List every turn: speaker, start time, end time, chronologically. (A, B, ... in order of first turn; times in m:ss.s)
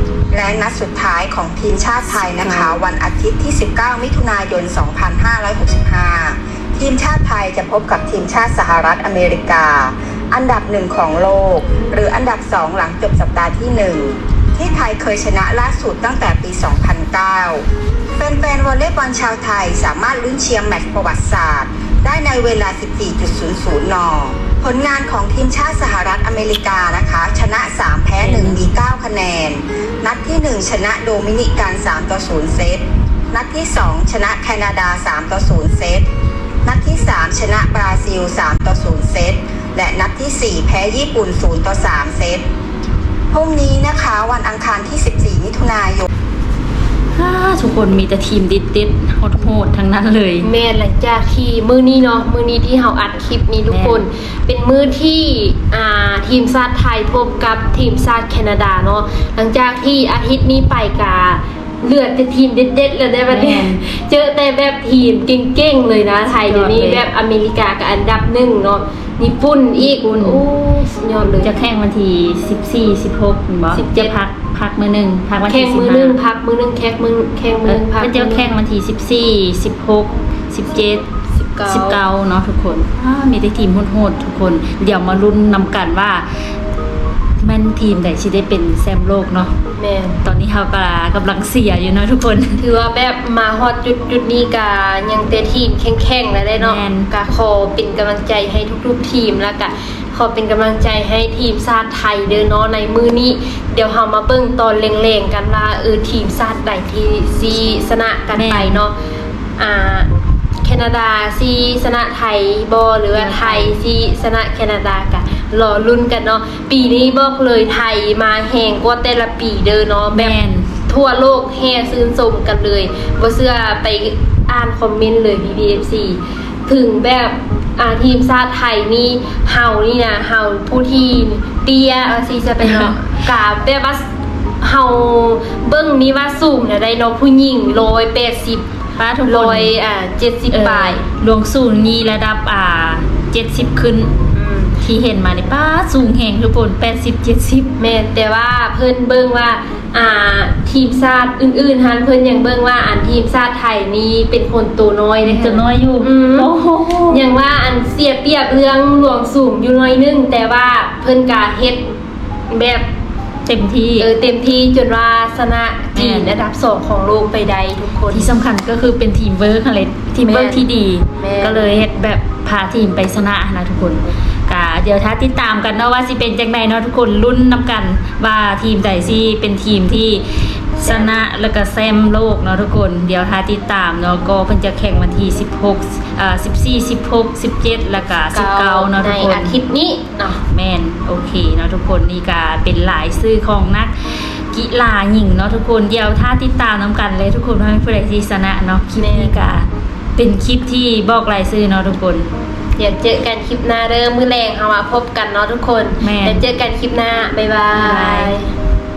0:00.3-0:36.1 A
0:28.2-0:28.7 B
0:36.6-0:42.4 A
0:43.3-0:46.1 A
0:47.1-0:50.5 B
0:50.4-1:11.5 C
0:53.7-0:54.0 B
1:03.3-1:03.8 B
1:06.3-1:07.1 B
1:09.8-1:10.4 B
1:11.4-1:16.2 B
1:13.7-1:14.1 C
1:15.5-1:18.5 C
1:17.6-1:21.0 B
1:21.3-1:22.0 C
1:21.7-1:26.3 B
1:27.4-1:29.5 B
1:29.8-1:30.2 C
1:30.2-1:32.6 B
1:32.6-1:48.9 C
1:36.5-1:37.1 B
1:48.3-1:48.8 B
1:49.6-1:50.1 C
1:50.6-2:14.0 C
1:53.1-1:53.8 B
2:00.1-2:00.7 B
2:12.6-2:13.0 B
2:14.6-2:18.6 C
2:19.0-2:19.8 B
2:19.2-2:21.0 C
2:20.5-2:24.1 B
2:24.3-2:24.7 C
2:24.8-2:27.7 B
2:27.8-2:36.5 C
2:35.2-2:37.2 B
2:37.1-2:41.9 C
2:42.5-2:42.8 C
2:43.4-2:44.1 B
2:44.0-2:48.4 C
2:45.9-2:46.4 B
2:48.1-3:00.2 B
2:50.2-2:50.6 C
2:51.2-2:51.7 C
3:00.8-3:09.5 B
3:00.8-3:01.2 C
3:08.3-3:10.4 C
3:10.5-3:22.3 B
3:19.0-3:19.4 C
3:22.8-3:28.5 C
3:26.0-3:26.4 B
3:27.8-3:28.3 B